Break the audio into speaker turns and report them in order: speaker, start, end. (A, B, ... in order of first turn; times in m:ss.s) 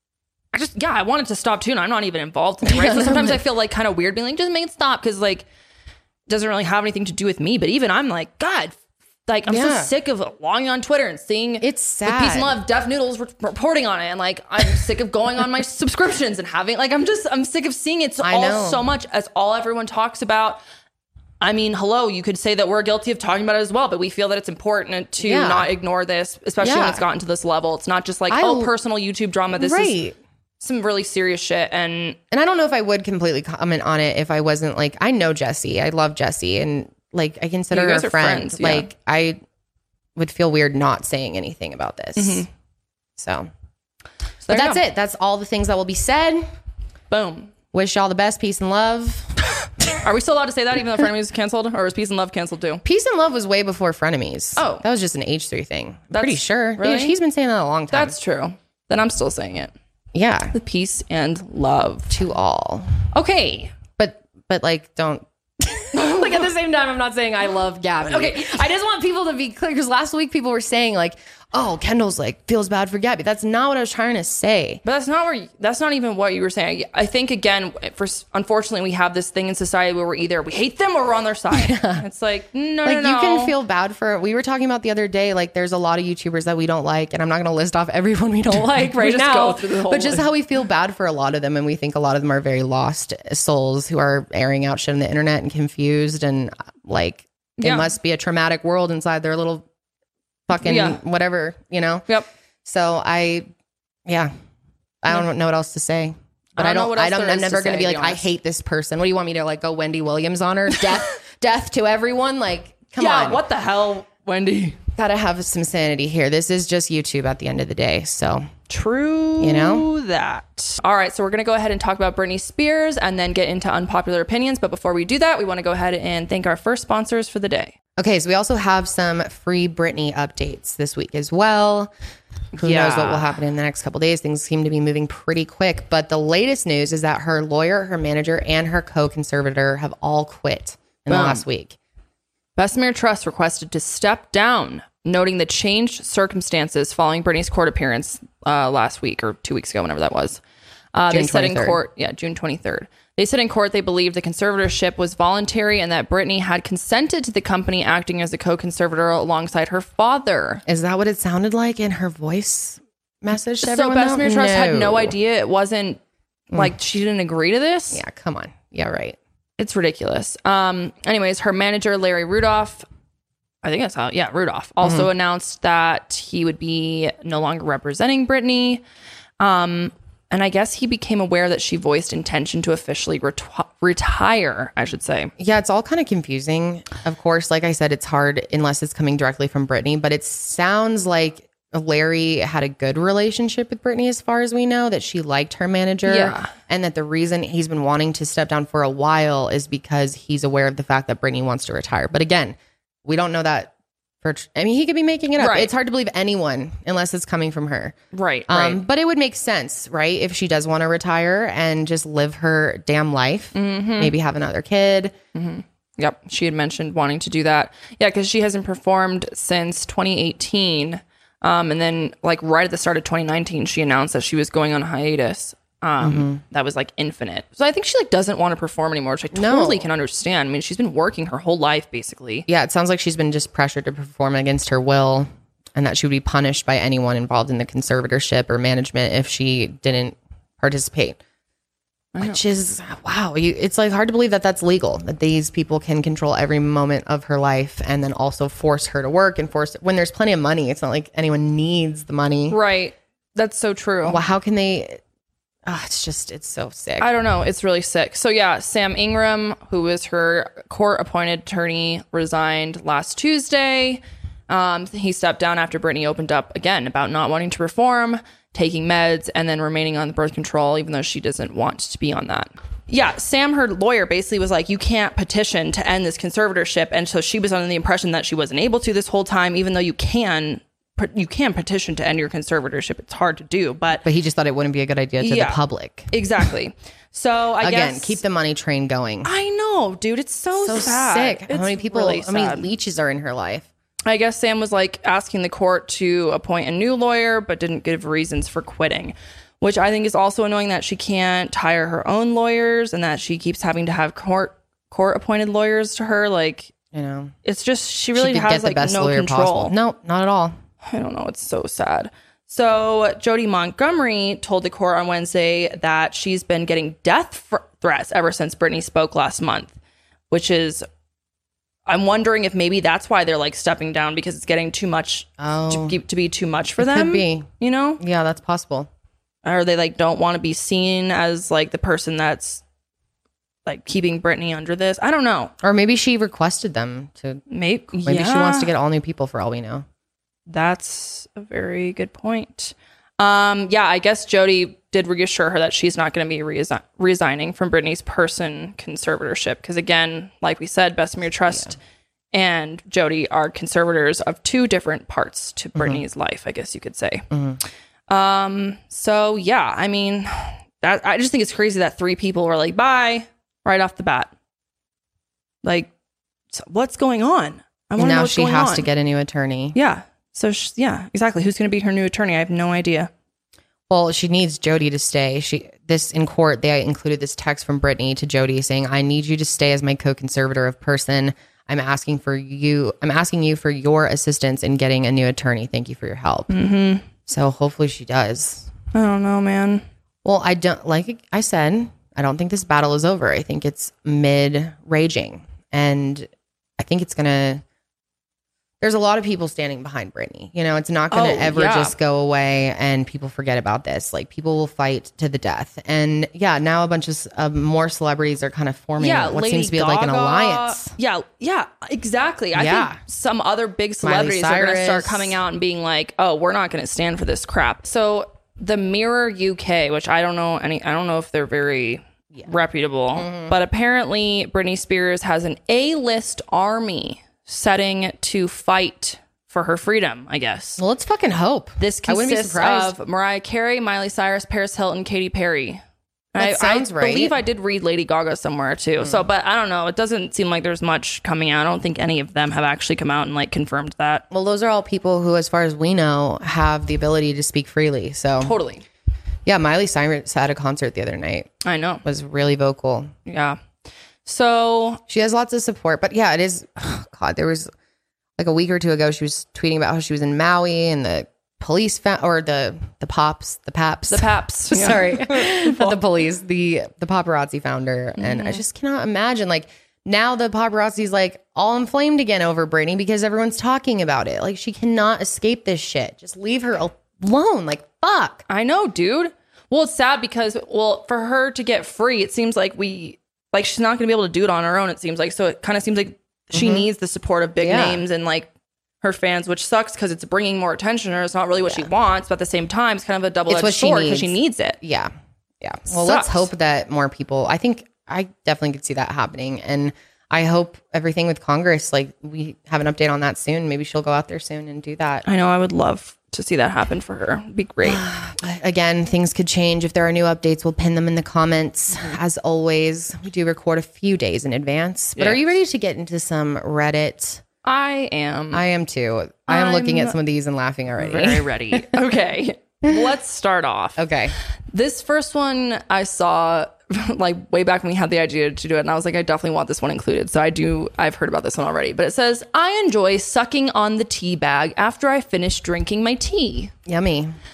0:00.5-0:05.5 A
0:02.6-0:03.4 B
0:06.3-0:20.6 A
0:09.5-0:09.9 B
0:11.6-0:12.6 B
0:18.2-0:18.8 B
0:21.4-0:30.0 A
0:25.2-0:25.7 B
0:26.6-0:27.0 B
0:28.3-0:28.7 B
0:29.5-0:30.2 B
0:30.6-0:32.2 A
0:32.3-0:39.4 B
0:37.7-0:38.9 A
0:40.2-0:42.4 B
0:42.2-0:42.5 A
0:43.2-0:43.5 B
0:44.4-0:44.8 A
0:44.5-0:46.4 B
0:47.1-0:47.5 A
0:47.7-0:49.3 B
0:50.0-0:52.8 A
0:52.8-0:58.1 B
0:54.6-0:54.8 A
0:56.1-0:57.2 A
0:57.9-0:59.7 A
1:00.1-1:00.5 B
1:00.5-1:02.2 A
1:02.1-1:03.1 B
1:03.1-1:03.7 A
1:04.0-1:14.8 B
1:05.9-1:06.4 A
1:08.0-1:08.6 A
1:14.8-1:23.5 A
1:21.5-1:22.0 B
1:22.8-1:39.6 B
1:28.5-1:30.3 A
1:37.6-1:37.9 A
1:40.5-1:42.0 B
1:40.6-1:41.0 A
1:42.6-1:43.5 B
1:44.0-1:44.3 B
1:45.0-1:53.4 B
1:46.6-1:48.2 A
1:53.0-1:54.8 A
1:55.0-1:58.5 B
1:58.7-2:07.7 A
1:59.4-1:59.9 B
2:08.0-2:11.9 B
2:12.5-2:13.3 A
2:12.6-2:21.7 B
2:21.1-2:21.4 A
2:22.6-2:30.4 A
2:30.9-2:40.6 A
2:31.1-2:31.8 B
2:40.6-2:45.1 B
2:43.6-2:46.0 A
2:46.5-2:48.0 A
2:47.9-2:49.2 B
2:49.6-2:52.8 A
2:53.6-2:58.8 A
2:54.8-2:55.1 B
2:59.4-3:05.3 A
3:05.4-3:23.7 B
3:16.0-3:16.5 A
3:24.2-3:27.9 B
3:25.4-3:25.7 A
3:28.1-3:28.8 A
3:28.5-3:35.1 B
3:33.5-3:34.1 A
3:35.3-3:52.4 A
3:46.0-3:46.4 B
3:49.3-3:49.8 B
3:52.5-4:01.2 B
4:02.1-4:02.4 A
4:02.2-4:12.6 B
4:12.5-4:14.2 A
4:14.0-4:15.0 B
4:15.6-4:17.1 B
4:17.0-4:44.0 A
4:44.0-4:46.5 B
4:45.2-4:48.2 A
4:47.6-4:49.3 B
4:49.2-4:52.6 A
4:50.6-4:53.6 B
4:54.0-5:06.7 A
5:06.9-5:07.3 B
5:07.4-5:09.7 A
5:08.1-5:10.5 B
5:10.8-5:19.7 A
5:20.3-5:20.8 A
5:21.9-5:28.0 A
5:25.4-5:26.0 B
5:26.8-5:27.5 B
5:28.0-5:28.9 B
5:29.4-5:32.6 A
5:33.6-5:35.5 A
5:35.6-5:37.4 B
5:37.5-5:38.7 A
5:38.0-5:39.8 B
5:40.5-5:51.8 A
5:52.3-5:57.3 A
5:55.8-5:56.0 B
5:57.3-5:57.6 B
5:58.1-6:04.3 A
6:05.6-6:05.9 A
6:06.5-6:08.9 A
6:08.0-6:09.7 B
6:09.7-6:13.1 A
6:13.9-6:26.5 B
6:26.5-6:27.0 A
6:27.2-6:28.7 B
6:28.9-6:29.8 A
6:30.2-6:37.6 B
6:38.8-6:50.9 B
6:41.1-6:41.9 A
6:49.0-7:10.8 A
6:52.5-6:53.0 B
6:54.0-6:55.4 B
7:03.2-7:03.5 B
7:10.8-7:13.0 B
7:11.8-7:15.8 A
7:16.3-7:24.2 A
7:16.4-7:17.3 B
7:24.3-7:28.5 B
7:28.4-7:28.8 A
7:29.4-7:31.5 B
7:31.6-7:32.0 A
7:32.0-7:33.1 B
7:33.2-7:33.6 A
7:34.2-7:35.0 A
7:35.1-7:37.7 B
7:38.4-7:58.4 B
7:44.1-7:46.0 A
7:48.2-7:48.6 A
7:58.5-8:08.5 A
8:06.5-8:06.9 B
8:07.6-8:08.0 B
8:09.0-8:14.8 A
8:13.5-8:25.2 B
8:15.9-8:16.5 A
8:25.2-8:28.0 A
8:27.8-8:37.4 B
8:35.2-8:35.4 A
8:37.6-8:38.6 A
8:38.5-8:41.9 B
8:39.5-8:40.2 A
8:41.0-8:44.0 A
8:44.0-8:44.3 B
8:44.7-8:56.7 A
8:56.8-8:57.3 B